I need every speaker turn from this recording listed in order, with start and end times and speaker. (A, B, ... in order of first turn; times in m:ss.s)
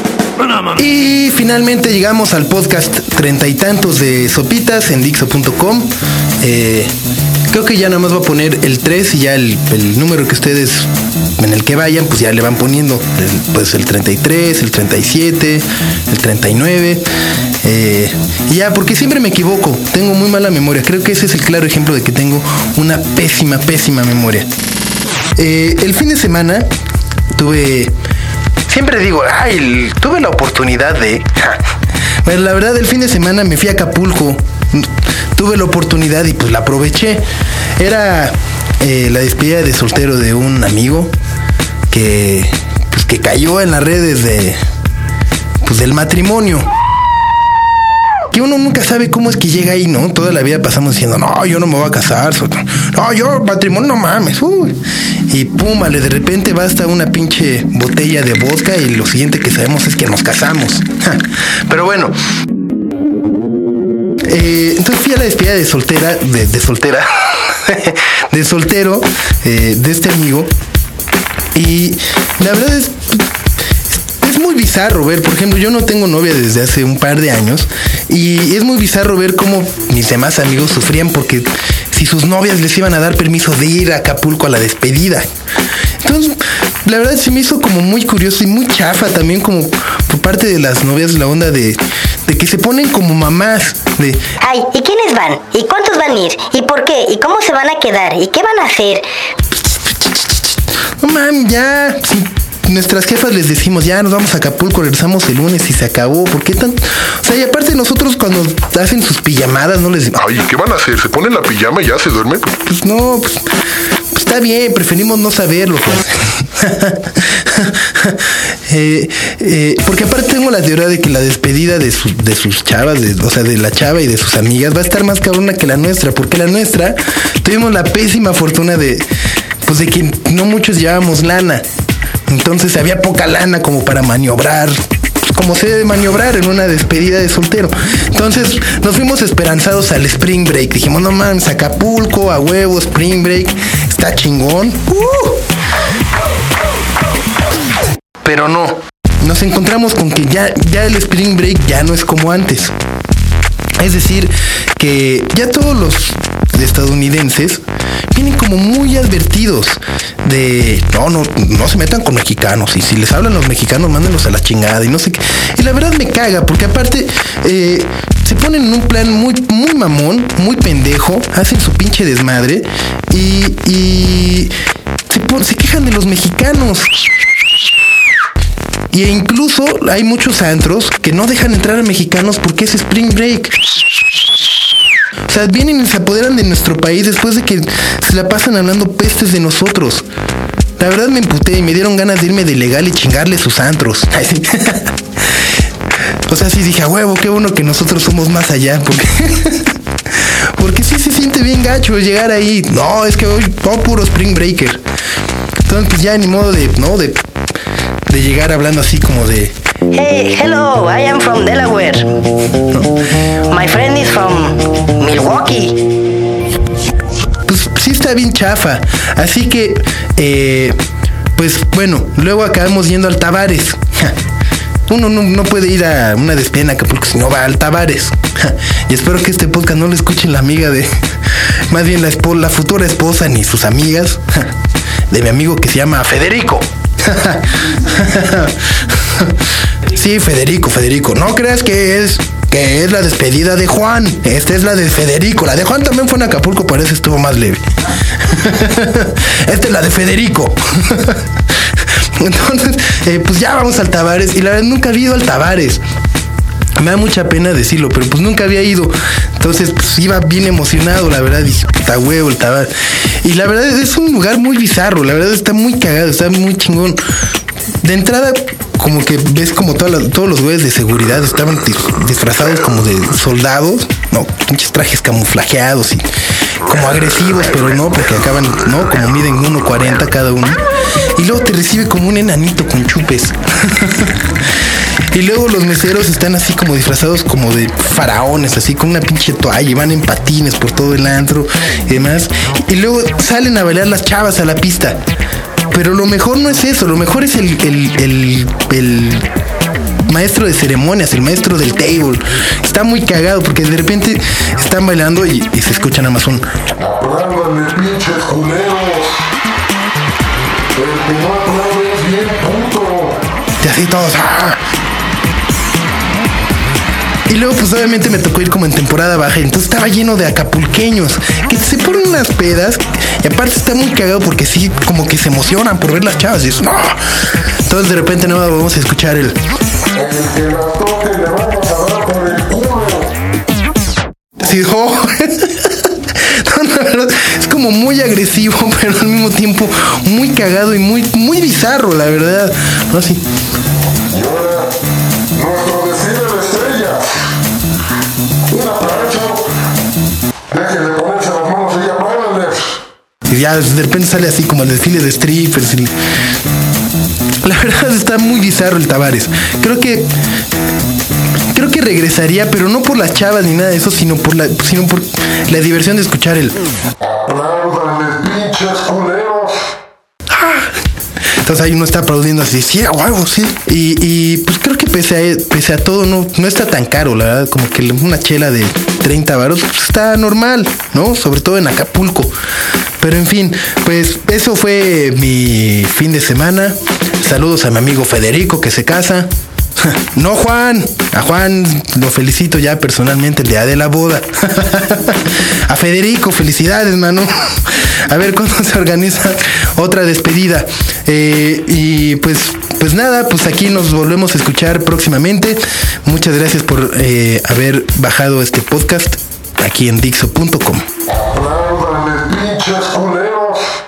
0:00.7-0:05.9 A
0:06.4-0:06.9 A
0:07.5-0:17.0 A
0:17.6-0:24.5 A
0:25.4-0:26.7 A
0:27.3-0:27.9 A
0:28.7-0:31.6 A
0:32.2-0:37.2 A
0:37.8-0:41.1 A
0:41.9-0:44.6 A
0:45.6-0:46.7 A
0:48.3-1:02.1 A
1:04.3-1:10.5 A
1:11.5-1:13.2 A
1:14.2-1:25.2 A
1:26.0-1:34.2 A
1:34.4-1:39.0 B
1:39.5-1:50.2 A
1:50.2-1:52.5 C
1:52.6-1:53.4 A
1:54.1-2:09.1 A
2:09.6-2:11.6 A
2:12.3-2:14.8 A
2:15.3-2:25.4 A
2:28.2-2:32.7 A
2:33.8-2:37.6 A
2:38.1-2:54.5 A
2:55.1-2:56.9 A
2:58.9-3:03.5 A
3:05.3-3:10.0 A
3:10.8-3:15.4 A
3:16.3-3:24.8 A
3:25.6-3:27.1 A
3:28.1-3:29.5 A
3:29.9-3:32.1 B
3:33.5-3:35.8 B
3:37.4-3:40.8 A
3:41.4-3:44.1 A
3:44.9-3:50.9 A
3:51.7-3:54.5 A
3:55.1-4:07.6 A
4:08.1-4:15.8 A
4:16.8-4:22.7 A
4:23.2-4:27.0 A
4:27.8-4:36.1 A
4:36.6-4:40.6 A
4:41.1-4:55.0 A
4:55.7-4:59.3 A
5:00.1-5:06.4 A
5:06.8-5:09.2 C
5:10.7-5:13.2 C
5:13.6-5:14.6 A
5:17.3-5:27.0 A
5:27.6-5:29.4 A
5:29.9-5:33.1 C
5:34.4-5:43.2 A
5:44.1-5:44.7 C
5:45.3-5:47.1 C
5:48.5-5:49.5 C
5:50.5-5:52.8 C
5:53.3-5:55.9 A
5:57.4-6:00.1 A
6:01.5-6:06.6 A
6:07.0-6:09.6 C
6:10.3-6:10.8 A
6:11.4-6:22.3 A
6:23.0-6:50.8 A
6:51.1-6:53.7 C